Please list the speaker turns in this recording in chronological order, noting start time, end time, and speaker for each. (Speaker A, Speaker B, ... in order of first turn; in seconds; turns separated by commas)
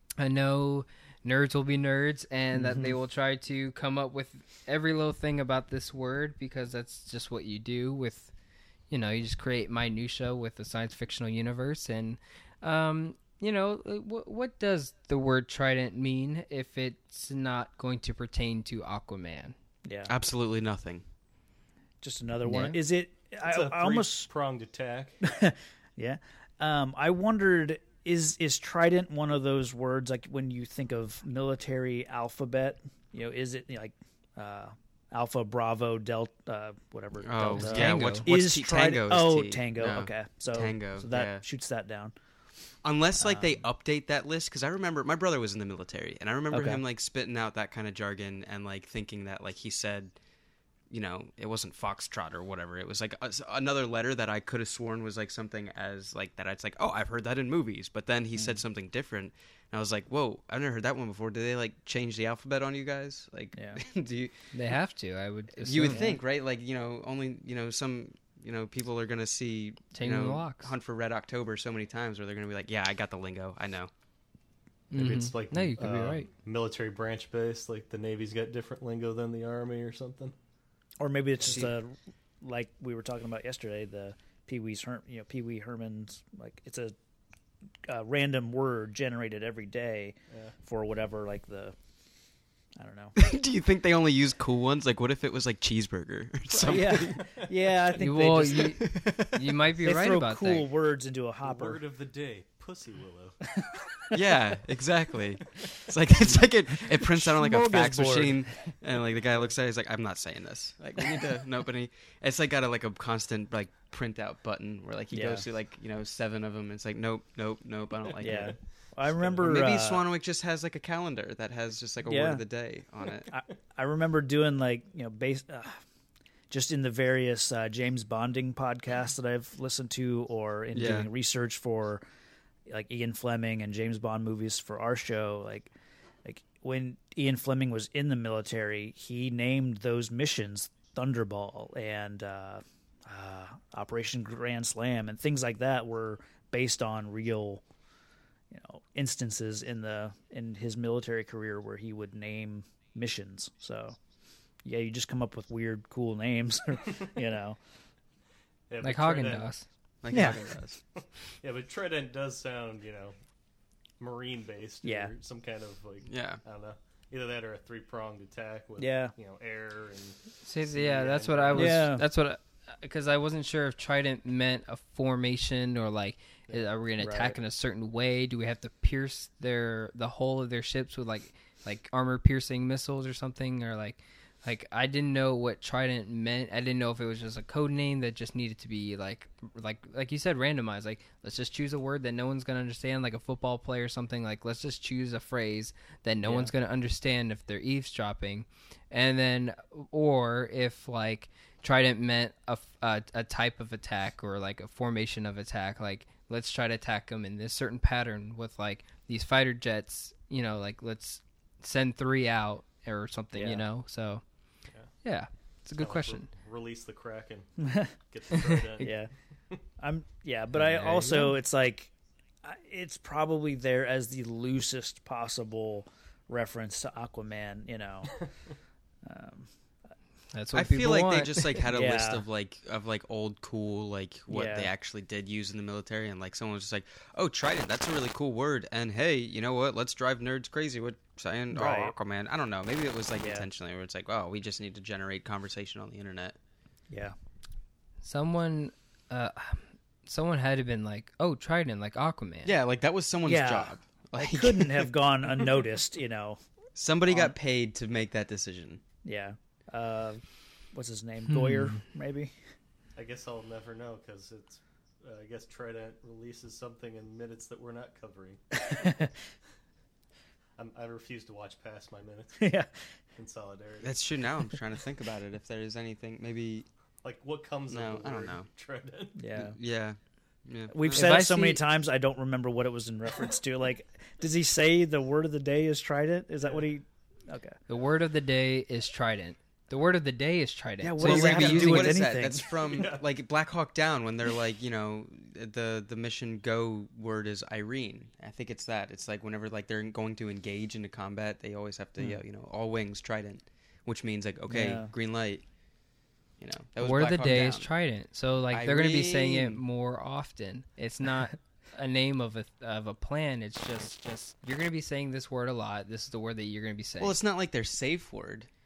Speaker A: 0.2-8.3, Speaker B: 2.5-2.9, Speaker A: 8.9-19.6, Speaker B: 19.8-20.1, Speaker C: 20.1-21.0, Speaker B: 22.0-24.3, Speaker A: 22.5-22.8, Speaker D: 23.4-25.2, Speaker B: 25.2-42.1, Speaker C: 37.2-41.4, Speaker A: 37.6-38.3, Speaker C: 42.8-50.2, Speaker B: 43.2-43.6, Speaker B: 46.5-46.8, Speaker C: 50.9-64.3, Speaker B: 63.5-63.8, Speaker A: 64.5-66.1, Speaker C: 65.6-73.9, Speaker B: 65.9-66.2, Speaker A: 69.9-70.7, Speaker A: 74.9-76.3, Speaker D: 74.9-80.3, Speaker B: 81.0-87.0, Speaker B: 87.8-91.8, Speaker B: 92.8-93.2, Speaker C: 93.2-97.4, Speaker D: 96.5-97.5, Speaker B: 96.7-98.9, Speaker A: 98.0-100.7, Speaker C: 98.6-99.4, Speaker B: 99.8-101.8, Speaker D: 101.4-103.6, Speaker C: 104.1-123.3, Speaker B: 106.3-108.7, Speaker B: 115.1-115.5, Speaker D: 118.1-118.7, Speaker B: 118.2-120.1, Speaker B: 122.0-122.4, Speaker B: 123.3-125.8, Speaker B: 126.5-132.0, Speaker C: 130.7-131.1, Speaker B: 132.7-135.7, Speaker B: 136.2-147.6, Speaker B: 148.5-154.0, Speaker B: 154.6-157.6, Speaker D: 158.7-159.5, Speaker A: 158.8-159.7, Speaker C: 160.0-160.8, Speaker B: 160.1-160.4, Speaker D: 161.0-163.2, Speaker D: 164.0-171.9, Speaker B: 164.8-165.1, Speaker C: 166.1-166.4, Speaker B: 168.8-169.1, Speaker A: 170.4-214.4, Speaker B: 171.5-172.1, Speaker B: 177.0-177.4, Speaker B: 196.2-196.5, Speaker B: 213.3-213.6, Speaker A: 215.0-216.3, Speaker D: 215.8-219.6, Speaker B: 218.8-219.1, Speaker B: 219.8-221.9, Speaker A: 220.5-221.3, Speaker B: 222.4-228.3, Speaker B: 229.0-229.5, Speaker A: 230.3-231.6, Speaker C: 230.5-246.4, Speaker B: 231.7-232.2, Speaker B: 234.3-234.7, Speaker B: 241.5-241.9, Speaker B: 243.2-243.5, Speaker A: 248.0-252.5, Speaker C: 252.4-254.9, Speaker B: 253.2-256.4, Speaker C: 256.8-258.8, Speaker B: 257.1-257.4, Speaker B: 259.0-262.4, Speaker A: 261.3-261.8, Speaker D: 263.0-268.8, Speaker B: 268.8-269.1, Speaker D: 270.6-272.6, Speaker B: 272.4-272.7, Speaker D: 273.1-274.3, Speaker C: 273.8-276.7, Speaker D: 277.0-279.2, Speaker C: 277.7-278.5, Speaker B: 279.2-279.6, Speaker C: 279.3-281.1, Speaker B: 280.7-287.6, Speaker A: 280.9-281.6, Speaker A: 287.7-292.0, Speaker B: 290.8-292.5, Speaker C: 290.9-307.7, Speaker D: 292.5-293.0, Speaker B: 304.5-304.9, Speaker A: 306.8-317.2, Speaker C: 308.5-309.6, Speaker C: 317.0-318.5